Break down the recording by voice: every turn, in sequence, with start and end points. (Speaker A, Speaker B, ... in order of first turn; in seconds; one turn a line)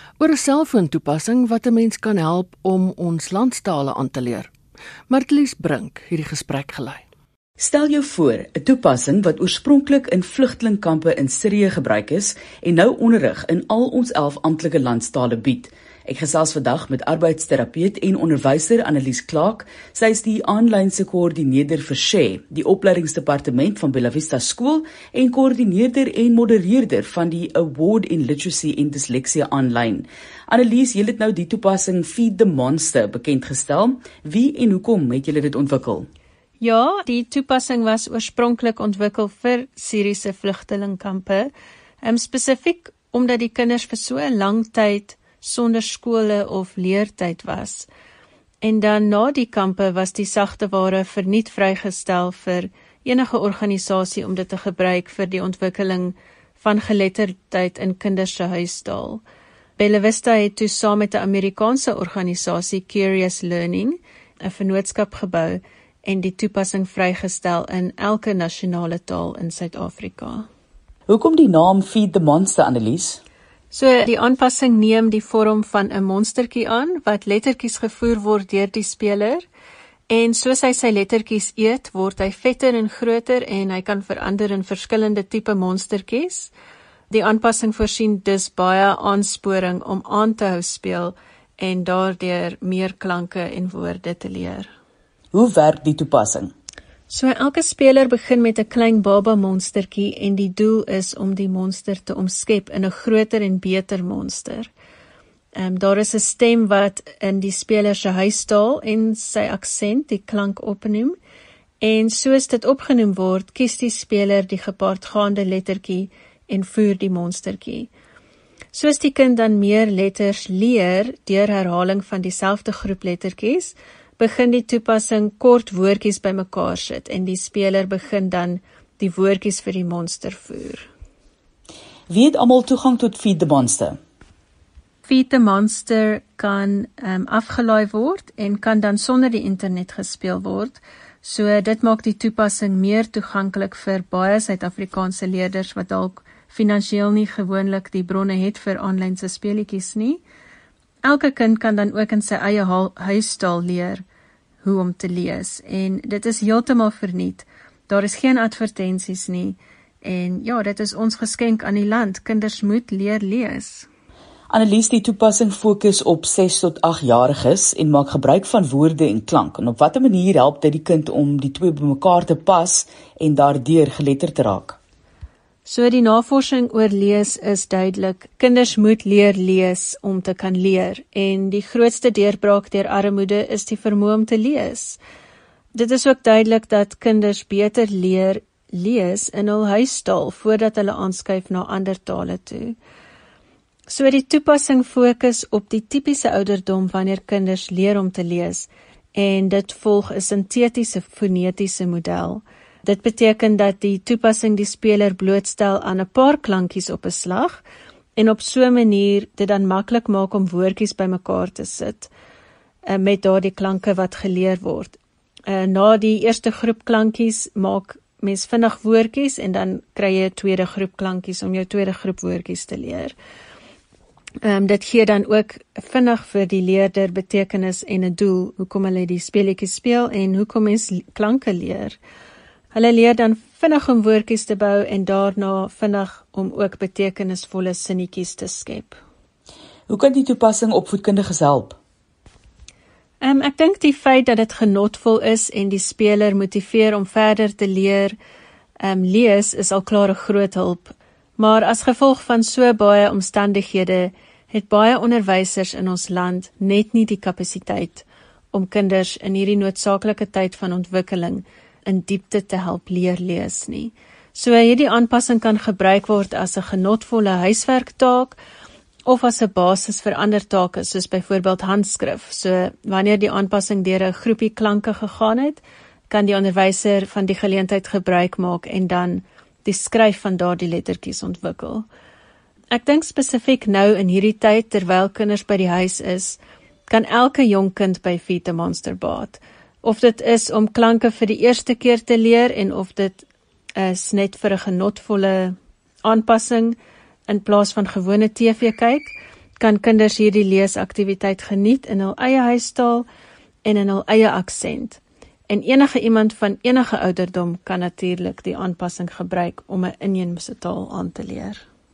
Speaker A: 0.2-4.5
Speaker A: 5.1-7.0
Speaker B: 7.6-36.1
Speaker C: 36.6-41.5
Speaker C: 42.0-47.9
Speaker C: 48.6-59.2
Speaker C: 59.8-70.5
Speaker B: 71.1-73.2
Speaker C: 73.7-79.5
Speaker C: 80.1-86.5
Speaker C: 87.1-94.7
Speaker B: 95.3-96.5
Speaker C: 97.1-104.7
Speaker C: 105.5-111.2
Speaker C: 111.8-117.9
Speaker C: 118.7-130.9
Speaker B: 132.1-134.0
Speaker C: 135.0-150.2
Speaker C: 151.0-154.0
Speaker C: 154.6-163.9
Speaker B: 164.5-174.8
Speaker C: 175.7-185.0
Speaker C: 185.7-192.8
Speaker C: 193.9-207.6
Speaker C: 208.2-212.1
Speaker C: 212.9-223.2
Speaker C: 224.4-232.0
Speaker C: 232.7-239.0
Speaker B: 239.9-241.8
Speaker C: 243.2-248.2
Speaker C: 248.8-268.4
Speaker C: 269.1-281.9
Speaker C: 282.7-293.2
Speaker C: 293.8-303.1
Speaker C: 303.6-311.6